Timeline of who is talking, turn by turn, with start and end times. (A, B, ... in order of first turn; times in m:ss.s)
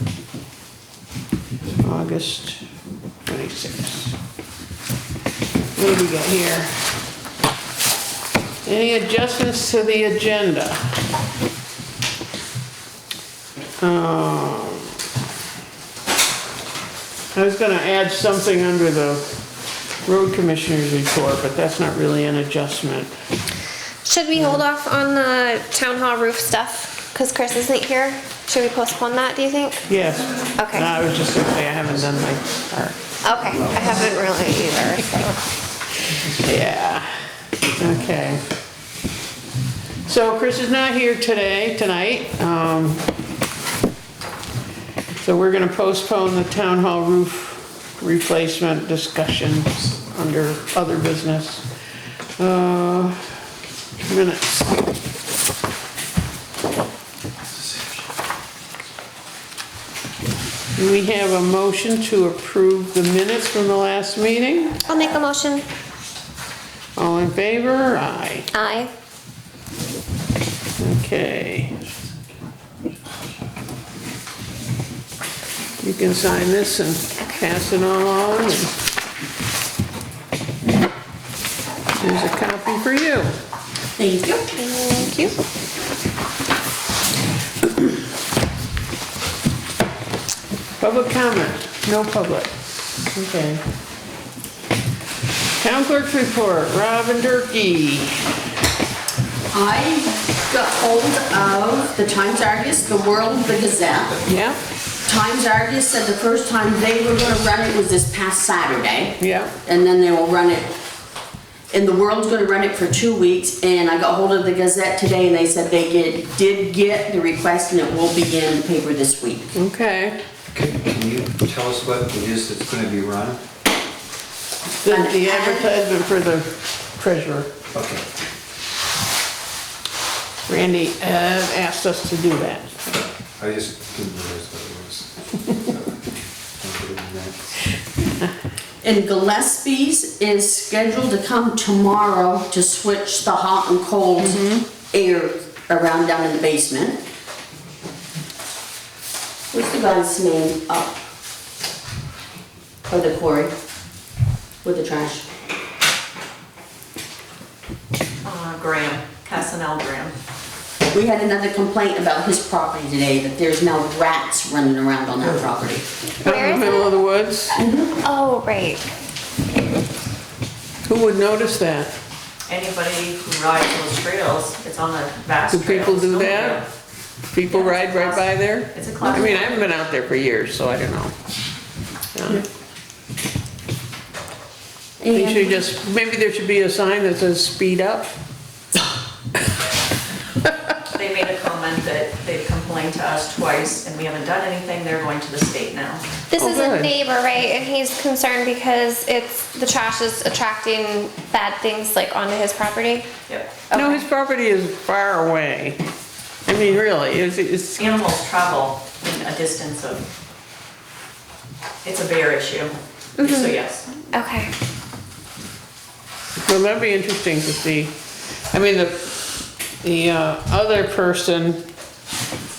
0:01.8-0:02.6 A
0:03.3-0:04.2 A
0:05.7-0:06.7 A
0:08.6-0:10.8 A
0:13.8-0:14.9 A
0:17.3-0:19.2 A
0:20.0-0:23.1 A
0:24.0-0:29.8 B
0:29.9-0:33.2 A
0:30.6-0:30.9 B
0:33.2-0:35.4 B
0:36.2-0:37.2 A
0:37.8-0:38.4 A
0:40.0-0:43.0 A
0:45.2-0:51.6 A
0:52.4-0:53.2 A
0:54.0-0:54.8 A
1:00.8-1:04.8 A
1:04.8-1:05.7 B
1:07.0-1:08.5 A
1:08.5-1:08.9 B
1:10.8-1:11.8 A
1:15.8-1:18.7 A
1:22.0-1:23.3 A
1:24.0-1:24.5 C
1:24.6-1:25.4 B
1:30.8-1:32.5 A
1:33.1-1:33.6 A
1:35.6-1:38.3 A
1:39.5-1:44.2 C
1:44.2-1:44.6 A
1:45.0-1:50.7 C
1:49.2-1:49.5 A
1:51.7-1:59.5 C
1:59.5-2:00.2 A
2:00.5-2:03.4 D
2:04.8-2:07.5 A
2:04.8-2:05.7 C
2:07.7-2:08.0 D
2:10.5-2:12.8 A
2:13.4-2:17.5 D
2:18.8-2:27.0 C
2:24.2-2:24.6 A
2:29.5-2:30.9 C
2:32.9-2:33.5 C
2:34.6-2:35.2 C
2:38.2-2:40.1 E
2:40.9-2:45.8 C
2:46.2-2:46.9 B
2:46.2-2:47.6 A
2:47.5-2:47.9 C
2:48.0-2:48.9 B
2:50.8-2:51.9 A
2:52.5-2:56.6 E
2:55.5-2:56.6 A
2:57.3-3:01.1 A
2:57.4-2:59.6 E
3:02.1-3:02.4 A
3:05.0-3:05.5 C
3:05.1-3:08.1 A
3:10.9-3:16.0 E
3:16.3-3:23.1 B
3:16.4-3:16.9 A
3:23.3-3:23.5 E
3:23.7-3:24.0 B
3:23.7-3:25.8 A
3:26.4-3:27.9 A
3:27.8-3:30.0 E
3:31.8-3:33.9 E
3:33.2-3:33.6 B
3:34.1-3:34.5 B
3:36.4-3:37.9 A
3:38.5-3:41.6 A